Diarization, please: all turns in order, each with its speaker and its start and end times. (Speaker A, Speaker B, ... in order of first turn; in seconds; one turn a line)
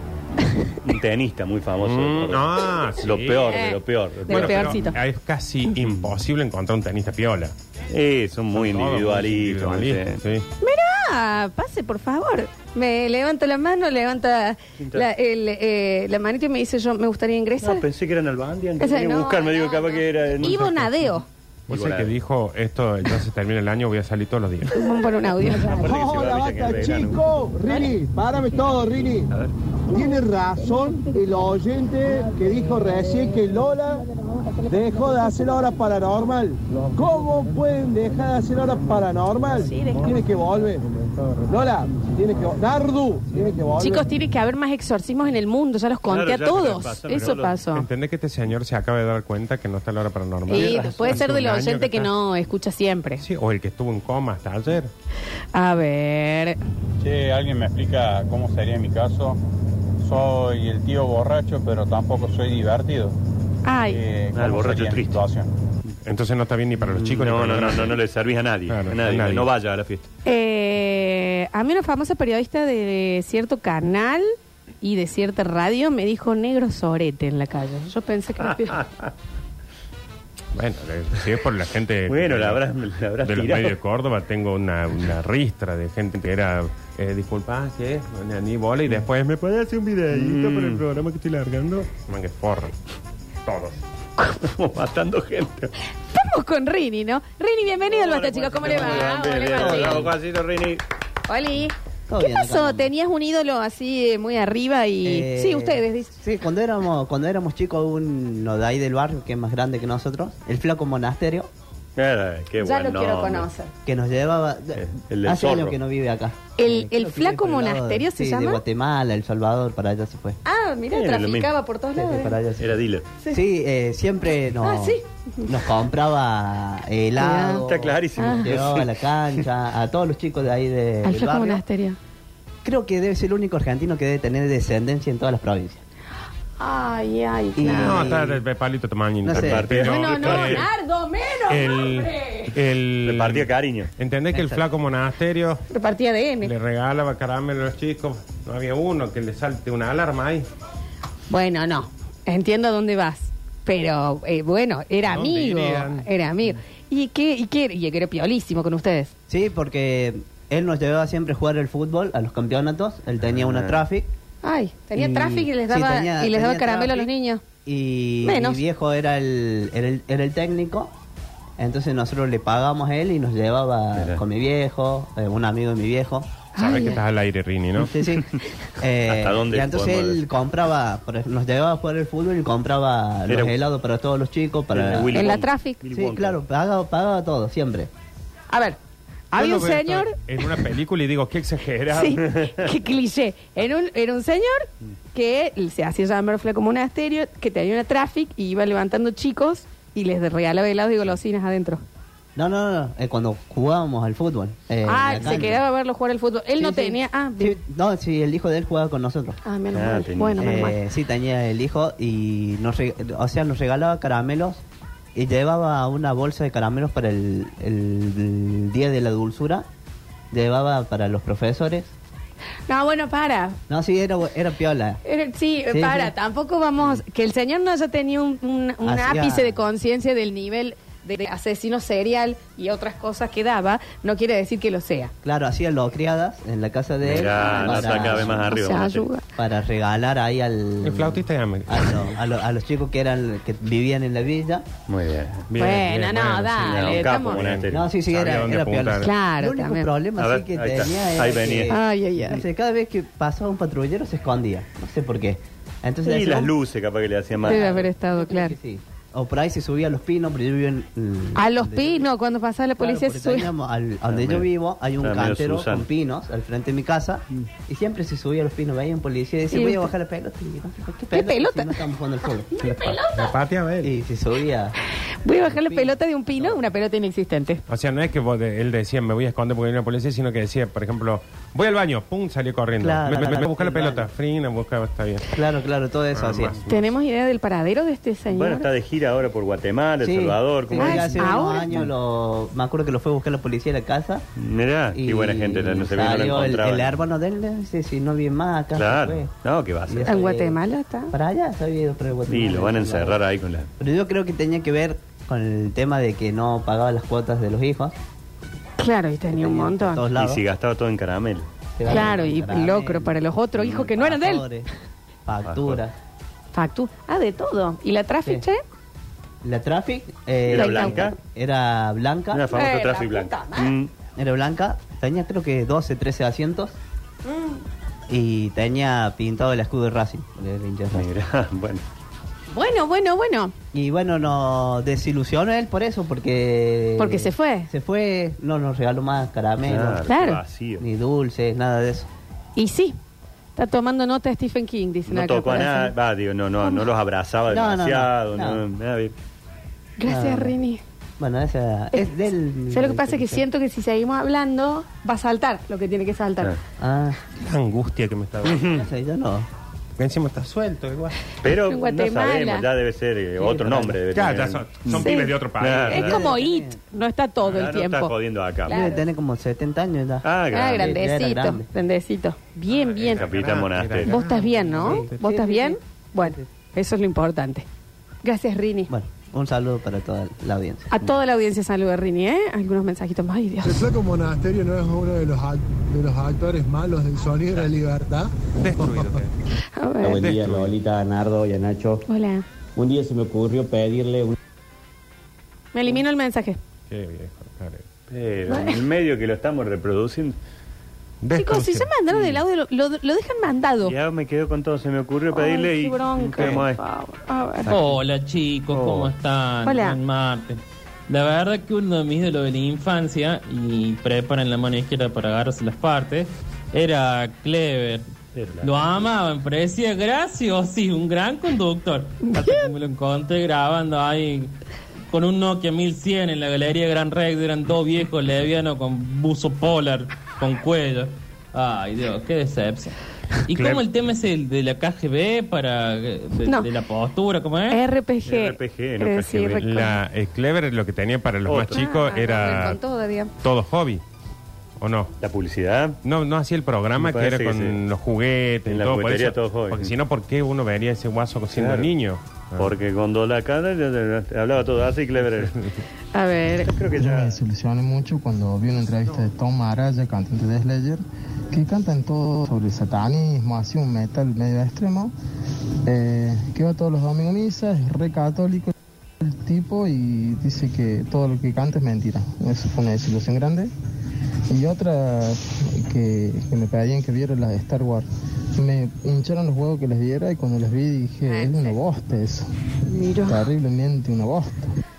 Speaker A: 0.4-0.7
Speaker B: 0.8-4.8
Speaker C: 1.8-3.6
Speaker A: 3.5-5.0
Speaker C: 4.3-7.5
Speaker B: 7.9-10.2
Speaker C: 8.5-10.5
Speaker A: 10.6-17.8
Speaker B: 14.8-15.1
Speaker B: 17.6-20.9
Speaker A: 18.8-21.3
Speaker B: 21.7-22.1
Speaker C: 21.7-24.9
Speaker A: 24.7-25.9
Speaker B: 25.4-27.2
Speaker D: 25.9-29.3
Speaker D: 29.9-34.0
Speaker D: 34.7-40.9
Speaker A: 39.6-40.2
Speaker D: 41.5-44.1
Speaker A: 43.8-47.9
Speaker B: 46.1-47.6
Speaker C: 47.1-52.1
Speaker A: 50.5-53.2
Speaker B: 50.6-51.2
Speaker C: 53.2-54.9
Speaker A: 55.5-56.6
Speaker E: 57.0-59.4
Speaker E: 60.0-63.2
Speaker A: 63.6-64.0
Speaker E: 63.9-65.5
Speaker B: 64.3-65.2
Speaker C: 66.0-68.0
Speaker B: 67.0-70.1
Speaker C: 68.7-69.5
Speaker A: 70.2-78.8
Speaker B: 78.5-79.1
Speaker C: 80.5-82.7
Speaker B: 82.1-83.8
Speaker C: 83.2-92.8
Speaker B: 90.1-90.8
Speaker C: 93.5-93.8
Speaker B: 94.4-95.7
Speaker A: 96.1-100.1
Speaker B: 97.9-100.8
Speaker F: 98.7-100.1
Speaker A: 101.3-106.1
Speaker F: 102.1-102.9
Speaker F: 105.0-111.5
Speaker B: 112.0-113.5
Speaker A: 112.6-113.7
Speaker F: 113.9-120.4
Speaker B: 114.8-115.8
Speaker A: 116.6-118.6
Speaker A: 120.5-122.4
Speaker B: 120.9-121.5
Speaker F: 122.0-122.8
Speaker B: 122.6-123.1
Speaker F: 123.3-131.6
Speaker A: 124.6-125.5
Speaker A: 127.2-128.5
Speaker B: 127.6-129.5
Speaker A: 131.0-132.0
Speaker F: 132.7-135.8
Speaker A: 136.6-138.2
Speaker F: 137.6-138.3
Speaker C: 137.7-140.7
Speaker F: 139.2-139.8
Speaker B: 139.3-140.7
Speaker A: 139.8-142.5
Speaker C: 141.5-145.6
Speaker B: 143.0-143.9
Speaker F: 144.3-144.6
Speaker A: 145.7-146.5
Speaker C: 146.4-150.5
Speaker A: 151.3-159.1
Speaker C: 155.0-156.1
Speaker F: 159.3-164.1
Speaker B: 163.2-163.8
Speaker A: 164.4-167.4
Speaker F: 164.9-167.1
Speaker F: 167.6-170.9
Speaker A: 168.2-168.6
Speaker F: 171.6-176.3
Speaker B: 173.9-174.2
Speaker A: 176.6-177.0
Speaker C: 176.6-177.9
Speaker F: 177.9-178.3
Speaker F: 178.8-185.4
Speaker B: 179.1-180.2
Speaker B: 183.3-183.6
Speaker B: 184.7-186.4
Speaker A: 185.1-185.8
Speaker F: 185.9-187.9
Speaker A: 188.5-188.8
Speaker A: 189.3-190.2
Speaker C: 189.3-192.2
Speaker A: 191.9-201.8
Speaker F: 202.4-205.6
Speaker A: 204.9-207.6
Speaker F: 206.6-209.4
Speaker A: 209.4-210.8
Speaker B: 209.7-210.7
Speaker F: 210.4-214.6
Speaker F: 215.2-219.7
Speaker F: 220.3-221.9
Speaker A: 222.7-223.6
Speaker F: 223.7-225.0
Speaker A: 225.1-235.1
Speaker F: 225.7-226.1
Speaker F: 228.8-229.6
Speaker F: 235.2-238.6
Speaker B: 237.0-239.1
Speaker A: 237.2-239.2
Speaker F: 239.4-244.7
Speaker C: 240.8-242.1
Speaker B: 244.9-245.5
Speaker C: 245.5-249.1
Speaker A: 245.6-247.4
Speaker B: 246.6-247.9
Speaker F: 247.7-256.5
Speaker A: 249.0-249.9
Speaker B: 250.2-251.8
Speaker A: 251.7-252.4
Speaker B: 256.1-257.7
Speaker F: 257.4-262.1
Speaker A: 257.4-258.6
Speaker A: 261.4-263.5
Speaker F: 262.8-272.5
Speaker B: 264.1-264.5
Speaker B: 265.0-265.9
Speaker A: 269.5-269.9
Speaker A: 271.1-271.8
Speaker A: 272.5-273.3
Speaker C: 272.6-273.9
Speaker F: 273.8-274.8
Speaker A: 275.2-277.6
Speaker F: 275.4-276.6
Speaker C: 277.7-285.2
Speaker F: 282.8-284.1
Speaker F: 285.3-286.6
Speaker C: 286.1-286.9
Speaker A: 286.7-288.7
Speaker B: 288.3-291.9
Speaker F: 290.0-294.2
Speaker A: 290.8-291.7
Speaker B: 294.4-297.0
Speaker F: 294.9-299.3
Speaker B: 298.8-300.1
Speaker F: 299.9-300.6
Speaker A: 300.1-301.1
Speaker F: 301.1-303.2
Speaker B: 302.3-303.7
Speaker F: 303.8-307.9
Speaker A: 308.8-310.1
Speaker F: 309.3-310.4
Speaker B: 310.1-311.5
Speaker F: 311.8-314.7
Speaker A: 311.9-314.5
Speaker F: 315.3-315.9
Speaker B: 315.5-315.8
Speaker A: 316.5-318.6
Speaker F: 319.4-322.5
Speaker B: 320.5-321.2
Speaker A: 320.5-321.1
Speaker B: 322.3-323.9
Speaker A: 322.5-323.7
Speaker F: 324.2-326.7
Speaker A: 327.3-327.6
Speaker F: 328.1-331.1
Speaker B: 330.9-331.8
Speaker A: 332.5-333.5
Speaker F: 333.7-340.1
Speaker A: 337.0-337.7
Speaker B: 339.6-340.8
Speaker A: 340.1-340.4
Speaker F: 340.8-342.1
Speaker A: 342.6-343.0
Speaker A: 343.6-345.9
Speaker B: 345.1-349.1
Speaker A: 346.6-346.9
Speaker F: 347.5-348.6
Speaker A: 350.0-350.8
Speaker F: 350.1-350.6
Speaker F: 351.2-353.4
Speaker A: 352.7-356.5
Speaker F: 356.8-357.2
Speaker C: 357.4-358.6
Speaker B: 358.5-358.9
Speaker F: 358.5-359.5
Speaker C: 360.0-361.2
Speaker A: 361.4-362.7
Speaker B: 361.4-366.3
Speaker F: 363.4-364.0
Speaker C: 364.1-366.0
Speaker A: 365.0-365.4
Speaker A: 365.9-368.1
Speaker F: 365.9-366.8
Speaker B: 367.4-368.8
Speaker F: 368.7-371.7
Speaker A: 368.7-369.0
Speaker B: 370.2-370.9
Speaker A: 370.5-373.2
Speaker C: 372.7-375.2
Speaker B: 373.1-374.2
Speaker A: 374.1-377.7
Speaker F: 374.8-376.5
Speaker A: 378.2-378.9
Speaker F: 378.9-380.9
Speaker A: 380.9-383.9
Speaker G: 383.6-389.2
Speaker C: 388.5-389.4
Speaker A: 389.8-390.3
Speaker H: 390.0-392.1
Speaker C: 390.1-390.7
Speaker A: 392.1-392.4
Speaker H: 392.8-394.4
Speaker A: 395.7-396.6
Speaker C: 396.9-397.9
Speaker B: 398.1-400.4
Speaker A: 398.5-398.8
Speaker C: 401.2-401.9
Speaker A: 401.4-403.9
Speaker B: 403.9-406.8
Speaker A: 405.3-407.7
Speaker C: 406.4-406.6
Speaker I: 407.7-418.1
Speaker B: 408.7-409.1
Speaker A: 409.6-410.0
Speaker B: 418.4-419.1
Speaker I: 418.6-424.5
Speaker A: 422.3-422.5
Speaker I: 425.1-433.0
Speaker I: 433.5-437.8
Speaker C: 433.5-433.9
Speaker A: 436.4-436.7
Speaker A: 437.7-440.0
Speaker B: 438.2-439.6
Speaker C: 439.6-442.8
Speaker B: 441.5-441.8
Speaker A: 441.7-443.3
Speaker C: 443.4-444.0
Speaker C: 444.8-445.1
Speaker B: 445.2-446.0
Speaker C: 446.0-452.8
Speaker B: 447.0-447.8
Speaker B: 448.7-449.9
Speaker B: 451.5-451.9
Speaker B: 452.6-455.6
Speaker A: 456.1-456.7
Speaker B: 456.7-457.4
Speaker J: 456.9-465.1
Speaker J: 465.9-473.7
Speaker J: 474.5-482.5
Speaker A: 481.3-481.8
Speaker A: 482.9-483.5
Speaker J: 483.1-484.8